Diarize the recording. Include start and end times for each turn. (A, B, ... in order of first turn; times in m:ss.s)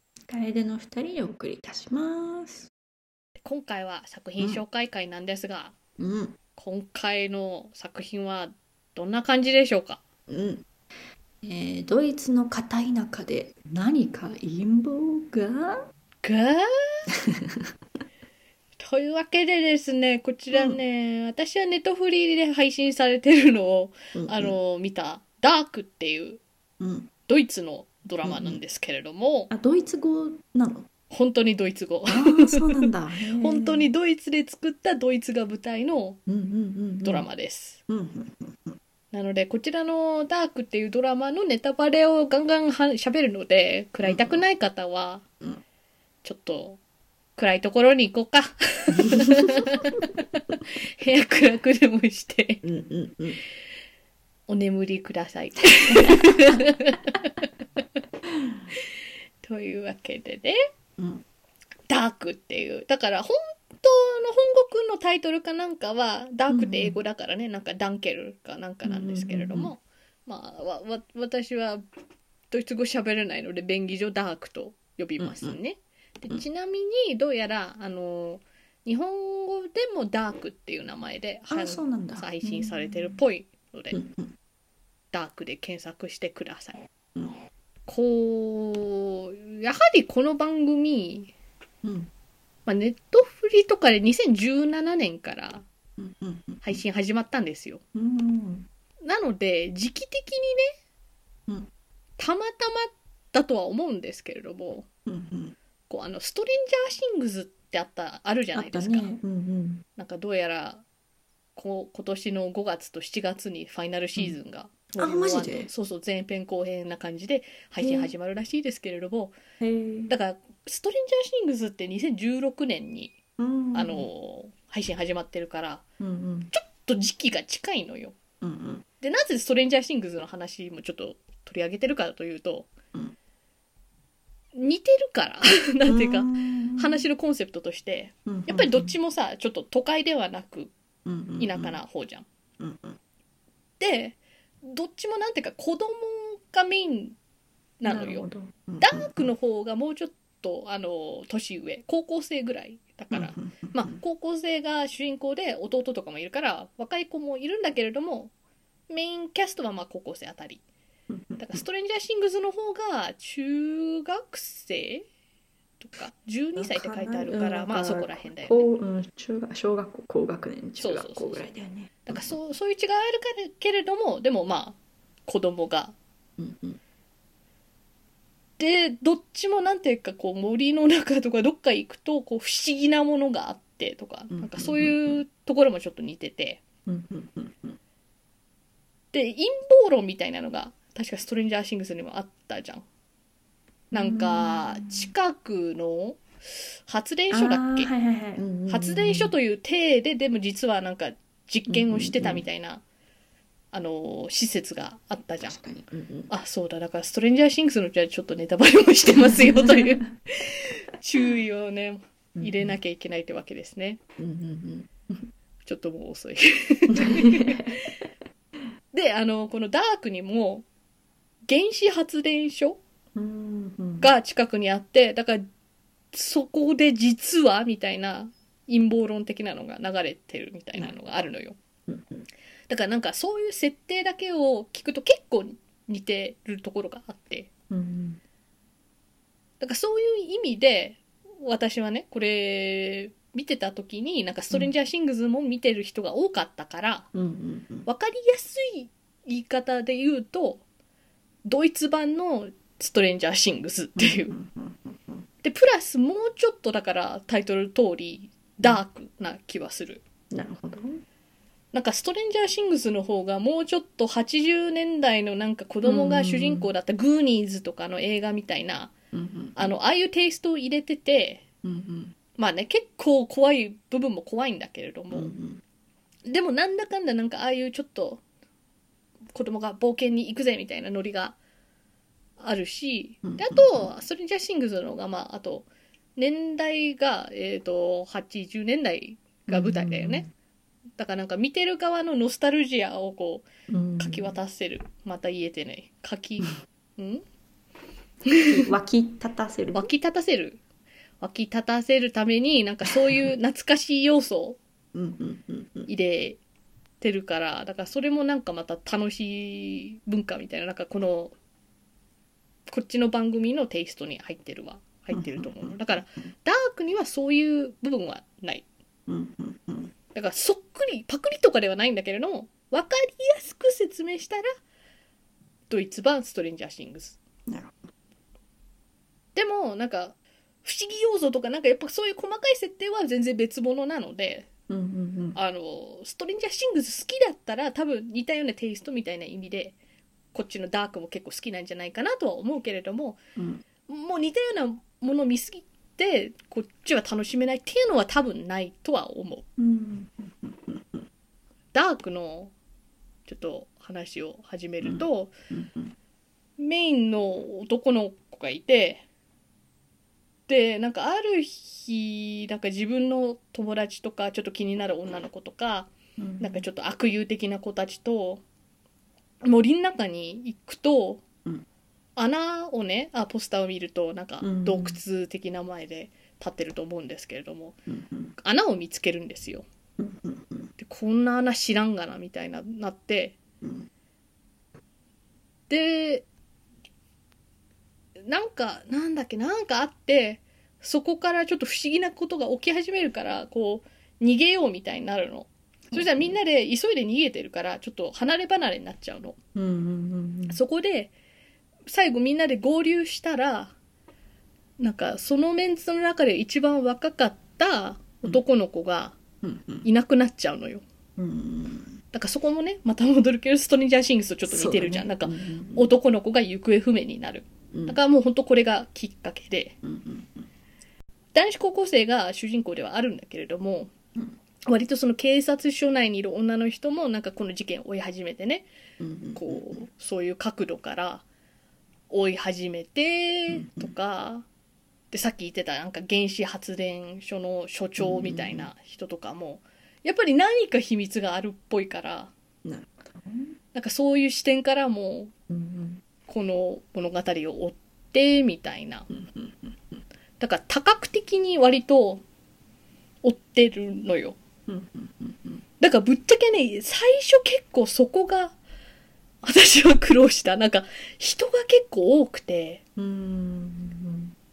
0:00.3-0:02.7 A
0:03.4-0:05.7 B
0:06.0-0:06.4 A
0:06.6-0:10.0 B
0:10.3-0:10.6 A
0:11.4-0:15.9 A
0:16.2-0:17.1 B
0:17.1-0:17.7 A
0:18.8-0:26.4 B
0:20.5-0:20.8 A
0:24.1-0:24.6 A
0:26.8-0:27.1 A
0:27.3-0:29.5 B
0:28.2-0:28.6 A
0:29.5-0:30.9 A
0:31.1-0:36.2 B
0:32.1-0:33.9 A
0:36.3-0:37.2 A
0:37.0-0:37.8 B
0:37.9-0:38.8 A
0:39.1-0:45.2 B
0:44.0-0:44.4 A
0:46.2-0:46.8 B
0:47.4-0:52.6 B
0:49.0-0:50.0 A
0:52.6-0:53.4 A
0:54.5-0:57.4 B
0:55.8-0:56.6 A
0:58.3-0:58.6 A
0:59.4-1:00.6 B
1:01.0-1:01.2 A
1:01.9-1:11.8 B
1:06.5-1:07.0 A
1:08.8-1:09.7 A
1:12.5-1:24.0 B
1:15.2-1:15.6 A
1:21.5-1:23.2 A
1:23.9-1:24.3 A
1:25.1-1:26.9 B
1:27.9-1:31.3 B
1:31.8-1:32.1 A
1:32.7-1:35.6 B
1:36.0-1:36.8 A
1:36.6-1:37.8 B
1:37.9-1:38.7 A
1:39.0-1:40.7 B
1:42.2-1:44.9 B
1:45.0-1:45.6 A
1:45.9-1:49.1 B
1:48.5-1:49.8 A
1:50.0-1:50.8 B
1:51.6-1:59.4 B
1:55.0-1:55.7 A
1:57.8-1:58.1 A
1:59.6-2:00.1 A
2:00.1-2:03.2 B
2:03.4-2:04.1 A
2:03.7-2:05.8 B
2:06.0-2:06.5 A
2:06.5-2:08.2 B
2:08.4-2:08.8 A
2:09.0-2:12.7 B
2:14.6-2:20.7 B
2:15.9-2:17.0 A
2:18.2-2:19.0 A
2:21.0-2:21.8 A
2:21.4-2:22.2 B
2:22.6-2:23.0 A
2:23.8-2:27.2 B
2:27.8-2:28.2 B
2:27.8-2:29.3 A
2:28.8-2:38.3 B
2:33.1-2:34.0 A
2:38.9-2:40.6 B
2:41.1-2:41.6 A
2:41.4-2:45.1 B
2:45.8-2:48.7 B
2:46.6-2:52.4 A
2:50.8-2:51.4 B
2:52.1-2:56.0 B
2:56.4-2:56.8 A
2:58.6-3:06.6 B
3:04.3-3:05.2 A
3:06.9-3:07.8 A
3:09.1-3:12.8 B
3:13.9-3:15.1 A
3:13.9-3:16.2 B
3:16.9-3:17.9 B
3:17.3-3:19.3 A
3:18.7-3:22.8 B
3:21.7-3:22.4 A
3:23.7-3:25.6 B
3:25.4-3:26.3 A
3:26.3-3:34.0 B
3:29.1-3:30.1 A
3:32.3-3:32.8 A
3:34.2-3:35.3 A
3:35.6-3:38.0 B
3:36.9-3:37.8 A
3:38.9-3:40.6 B
3:41.5-3:42.8 B
3:43.2-3:44.1 A
3:44.0-3:45.4 B
3:46.1-3:51.6 B
3:51.9-3:52.3 A
3:52.7-3:57.5 B
3:57.7-3:58.2 A
3:59.6-4:07.1 B
4:07.1-4:07.9 A
4:07.9-4:10.6 B
4:11.4-4:14.4 B
4:14.0-4:15.2 A
4:15.4-4:20.0 B
4:20.3-4:21.0 A
4:21.7-4:28.9 B
4:25.8-4:26.7 A
4:29.1-4:29.7 A
4:29.6-4:31.4 B
4:31.6-4:32.1 A
4:32.4-4:35.3 B
4:35.1-4:35.6 A
4:36.2-4:38.2 B
4:39.3-4:41.4 B
4:42.4-4:50.2 B
4:43.2-4:43.9 A
4:49.5-4:50.3 A
4:51.0-4:53.5 B
4:53.7-4:54.3 A
4:54.0-4:57.2 B
4:58.3-4:58.7 B
4:58.4-4:59.9 A
4:59.7-5:00.6 B
5:01.2-5:04.6 B
5:04.9-5:05.9 A
5:05.9-5:06.4 B
5:07.0-5:11.3 B
5:12.7-5:18.6 B
5:15.1-5:16.3 A
5:19.1-5:19.9 A
5:20.1-5:24.5 B
5:25.7-5:27.2 B
5:27.5-5:27.8 A
5:29.4-5:34.5 B
5:34.7-5:35.4 A
5:35.4-5:39.8 B
5:40.3-5:43.2 B
5:43.4-5:43.6 A
5:43.9-5:49.4 B
5:49.6-5:51.0 A
5:51.7-5:52.5 B
5:53.3-5:55.3 B
5:54.8-5:55.9 A
5:56.6-5:59.0 B
6:00.5-6:08.4 B
6:06.2-6:06.7 A
6:09.4-6:11.2 B
6:12.2-6:17.8 B
6:14.4-6:15.0 A
6:17.9-6:18.3 A
6:18.4-6:19.7 B
6:20.0-6:20.7 A
6:20.8-6:23.4 B
6:23.6-6:23.9 A
6:25.7-6:26.2 B
6:28.2-6:39.4 B
6:35.9-6:36.4 A
6:39.6-6:40.6 A
6:40.5-6:41.1 B
6:41.9-6:43.8 B
6:44.8-6:49.2 B
6:49.4-6:49.9 A
6:49.8-6:50.8 B
6:51.2-6:52.0 A
6:52.1-6:59.8 B
6:54.5-6:55.9 A
6:57.7-6:58.0 A
6:59.8-7:00.5 A
7:01.4-7:03.9 B
7:04.7-7:08.7 B
7:09.0-7:09.8 A
7:09.3-7:11.2 B
7:12.1-7:14.4 B
7:13.5-7:13.9 A
7:15.1-7:22.3 B
7:18.0-7:18.7 A
7:22.6-7:23.6 A
7:23.7-7:25.3 B
7:25.5-7:26.0 A
7:26.3-7:29.1 B
7:29.1-7:30.0 A
7:30.4-7:32.2 B
7:33.2-7:34.4 B
7:34.7-7:35.6 A
7:35.8-7:38.6 B
7:39.4-7:42.8 B
7:43.0-7:44.3 A